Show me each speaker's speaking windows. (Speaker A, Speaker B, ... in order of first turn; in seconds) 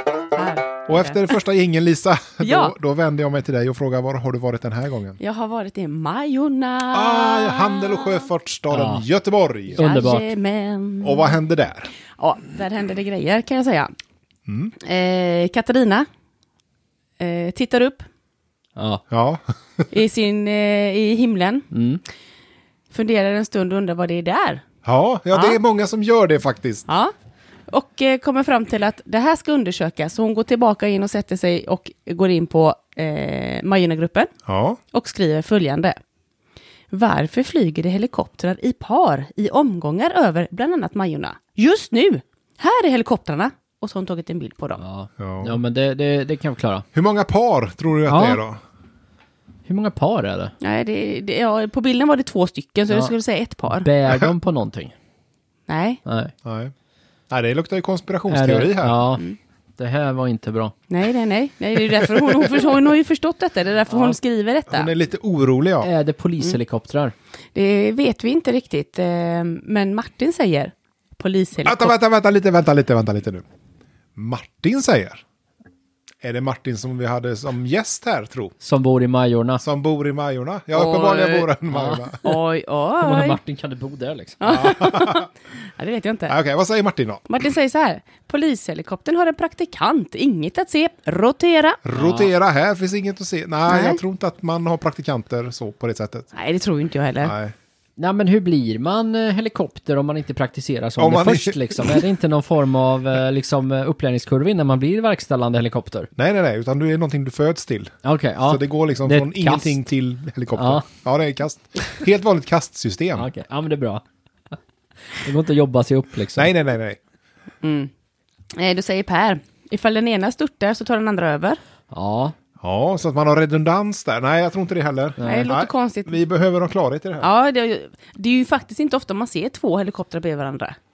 Speaker A: 0.3-1.3, 2.4-2.7, 5.2-8.3, 9.7-11.3, 12.2-13.9, 14.8-16.1, 17.2-18.1, 19.9-21.7, 22.9-24.6, 25.3-25.6, 26.9-27.1, 27.7-34.3, 34.9-36.0, 36.9-44.8, 50.6-53.9, 55.7-56.0, 60.9-64.9, 67.5-71.9, 80.7-81.5, 82.2-83.4, 84.4-86.3, 87.3-91.8, 93.7-94.0, 96.3-97.3, 117.6-117.9, 118.6-121.6, 125.2-126.1, 127.2-130.8
Speaker B: 0.9-5.2, 6.9-9.8, 11.0-11.9, 14.5-14.7, 19.1-19.9, 24.8-26.9, 34.5-34.8, 45.2-45.6, 46.9-48.6, 56.4-56.7, 57.3-59.0, 64.7-65.9, 71.7-73.4, 74.2-75.2, 76.2-78.5, 79.6-82.2, 84.5-85.3, 86.3-87.2, 91.8-96.3, 97.2-97.5, 101.0-102.0, 106.2-113.3, 116.4-117.0, 122.6-127.3
Speaker C: 8.7-9.0, 9.8-10.3, 18.8-19.0, 21.7-22.0, 44.8-46.9, 48.1-48.4, 49.7-50.5, 53.8-54.9, 56.0-56.3, 58.3-59.2, 59.8-60.7, 63.9-64.2, 65.8-67.1, 78.6-79.6, 81.7-82.4, 83.0-84.4, 91.9-92.3, 98.0-106.1, 108.0-109.8, 110.5-110.9, 113.1-114.0, 115.1-116.5, 121.9-122.3, 125.2-125.5